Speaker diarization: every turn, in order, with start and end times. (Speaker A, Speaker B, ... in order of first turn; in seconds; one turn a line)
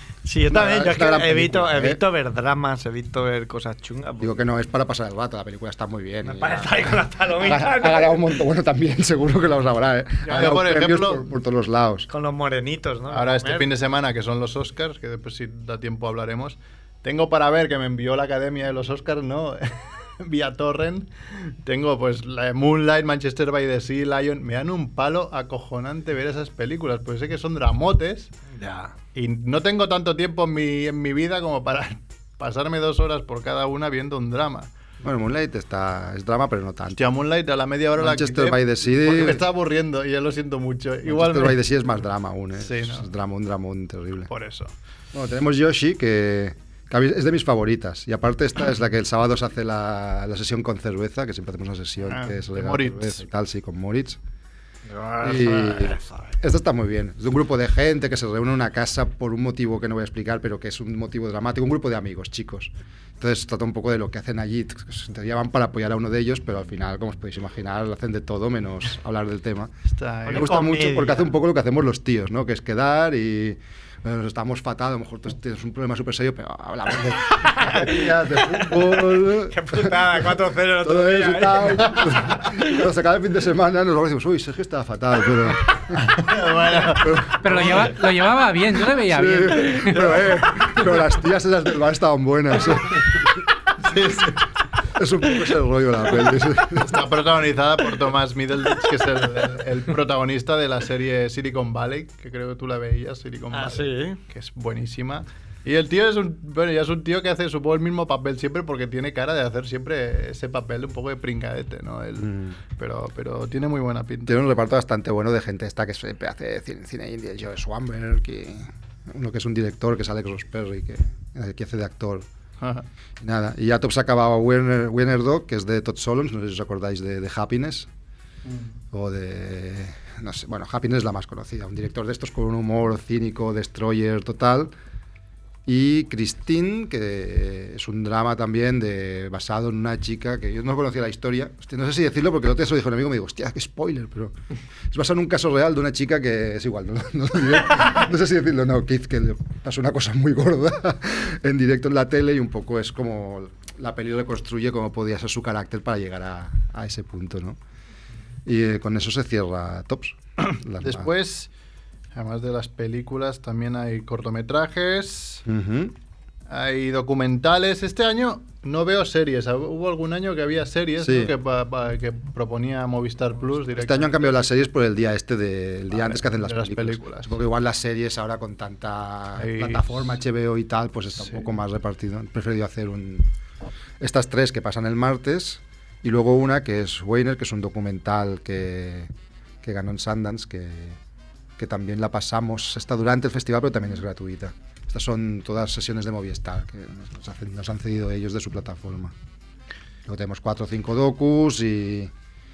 Speaker A: 0.2-4.3
Speaker B: 0.5-2.0
Speaker B: 4.2-12.1
Speaker A: 6.2-8.4
Speaker C: 10.2-11.3
Speaker A: 12.1-13.7
Speaker C: 13.1-28.3
Speaker A: 28.5-28.9
Speaker C: 29.1-34.7
Speaker B: 35.0-37.2
Speaker C: 37.0-41.6
Speaker B: 38.0-39.5
Speaker B: 41.1-44.3
Speaker C: 42.6-43.1
Speaker C: 44.3-44.7
Speaker B: 45.1-54.2
Speaker C: 52.0-53.2
Speaker A: 54.9-56.4
Speaker B: 55.2-69.7
Speaker C: 69.9-70.6
Speaker B: 70.3-86.0
Speaker A: 70.3-71.3
Speaker A: 77.3-82.7
Speaker C: 86.0-87.8
Speaker B: 87.0-88.0
Speaker D: 87.4-90.2
Speaker B: 88.9-93.2
Speaker C: 93.8-94.4
Speaker B: 95.0-97.0
Speaker C: 96.8-114.4
Speaker A: 103.5-104.2
Speaker B: 112.2-112.6
Speaker B: 114.3-122.3
Speaker C: 122.6-122.9
Speaker B: 123.2-127.9
Speaker B: 128.9-134.7
Speaker B: 135.7-144.4
Speaker B: 144.9-157.6
Speaker B: 158.4-161.1
Speaker C: 160.8-161.5
Speaker C: 162.1-165.4
Speaker B: 165.5-165.9
Speaker C: 166.5-174.4
Speaker B: 171.0-171.3
Speaker B: 173.7-183.3
Speaker C: 175.9-177.4
Speaker C: 179.4-179.9
Speaker B: 184.0-189.1
Speaker B: 189.6-191.0
Speaker B: 191.6-199.1
Speaker B: 200.1-202.1